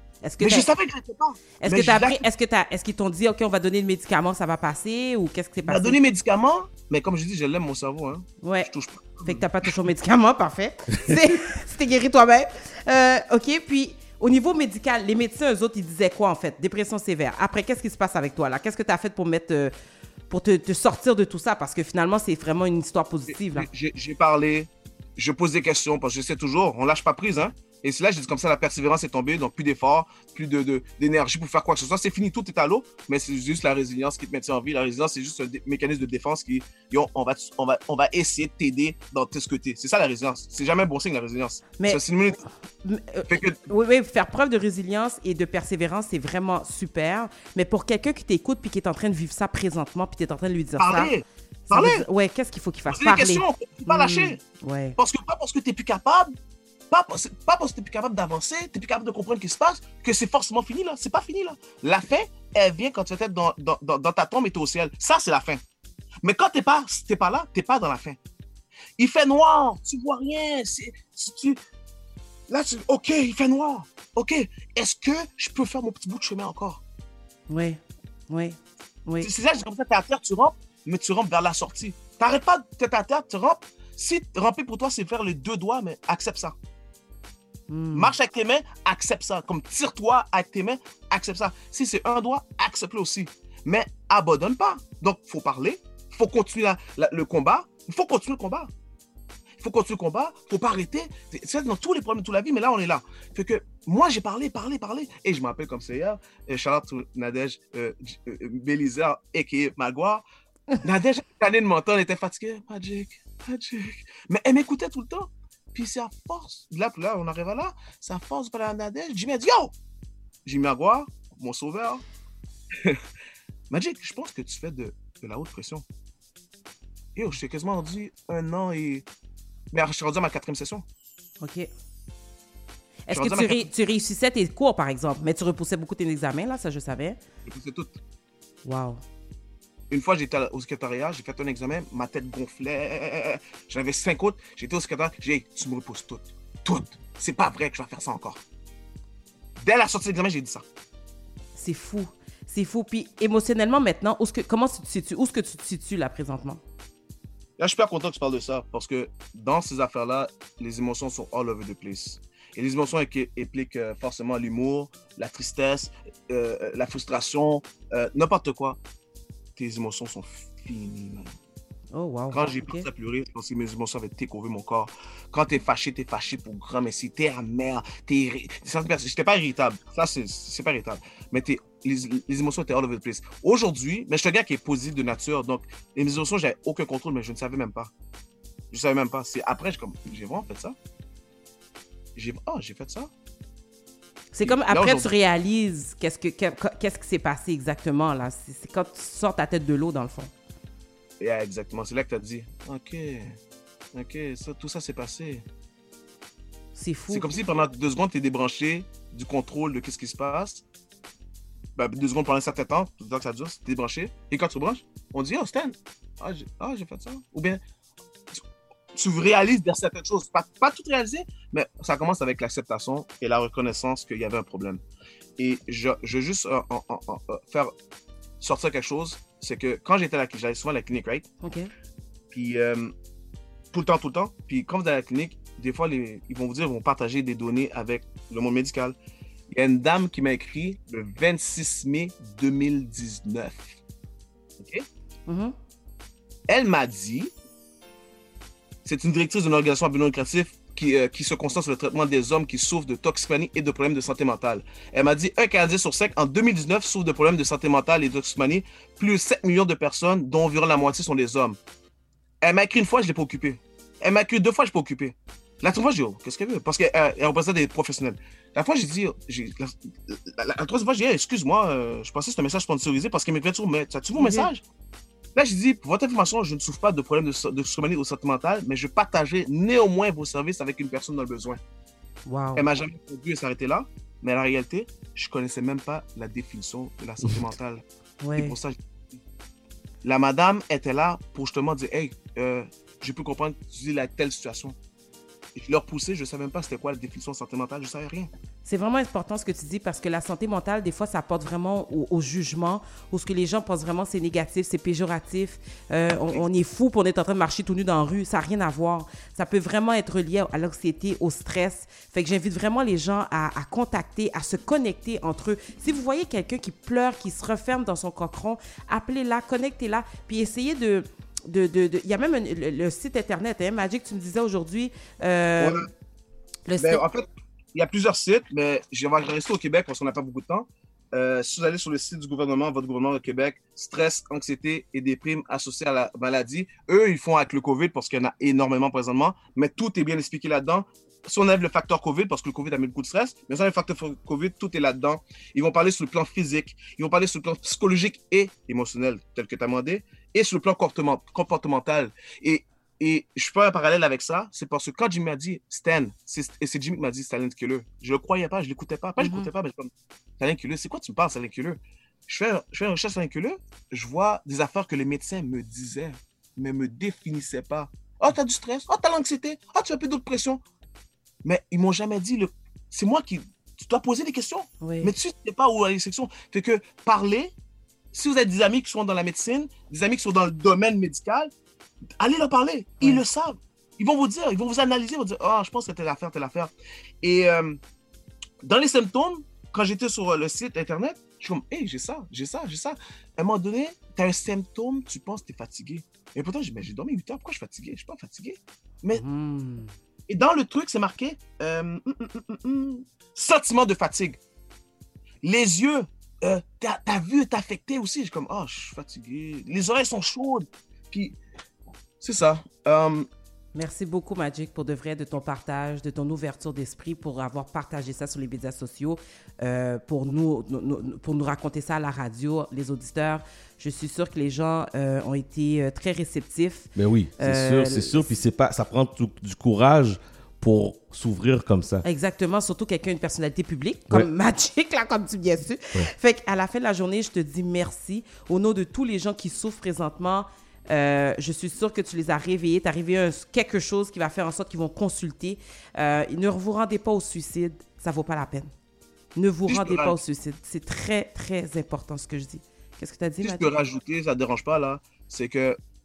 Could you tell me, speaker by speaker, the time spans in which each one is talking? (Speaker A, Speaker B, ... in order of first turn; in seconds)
Speaker A: 0.2-0.7, 1.6-6.0, 8.4-8.7, 9.2-19.7, 20.3-23.7, 42.8-51.1, 51.7-55.0, 77.5-79.3, 87.7-88.1, 131.4-131.7, 133.1-137.2, 138.7-139.0, 151.6-156.6, 171.9-172.9, 194.3-200.3, 206.8-207.3, 231.4-231.7, 245.3-245.5, 274.2-274.5, 282.3-282.7, 288.2-288.6, 298.6-325.9, 326.7-327.0, 359.2-359.5, 374.8-375.1, 399.1-399.9, 413.8-428.3, 432.0-448.7, 449.4-453.7
Speaker B: 0.4-2.3, 5.7-9.7, 23.3-42.4, 43.3-43.6, 50.8-52.1, 52.9-54.4, 55.0-56.3, 56.9-65.6, 66.2-68.2, 69.0-71.6, 72.5-76.8, 79.2-86.5, 87.9-98.7, 99.6-110.2, 110.8-119.7, 120.5-122.0, 122.8-123.0, 123.7-125.9, 127.2-129.1, 129.7-130.8, 133.1-133.7, 137.4-138.0, 139.9-148.4, 149.6-150.7, 157.6-168.8, 169.6-171.3, 172.3-187.9, 188.7-190.8, 192.2-193.1, 194.4-195.1, 201.2-203.4, 203.9-205.4, 207.1-210.6, 211.8-217.6, 218.9-224.8, 225.4-227.7, 228.4-231.3, 232.3-232.9, 233.7-239.0, 239.5-243.8, 244.6-244.9, 246.5-247.3, 248.8-261.6, 262.4-274.6, 275.4-281.6, 282.6-287.8, 288.4-288.8, 290.0-294.8, 295.6-298.3, 325.6-325.9, 326.8-370.6, 371.4-377.5, 378.1-381.5, 382.2-387.8, 388.6-399.2, 400.3-404.4, 405.4-411.4, 412.2-413.3, 449.7-450.2, 453.4-455.8
Speaker C: 427.0-432.0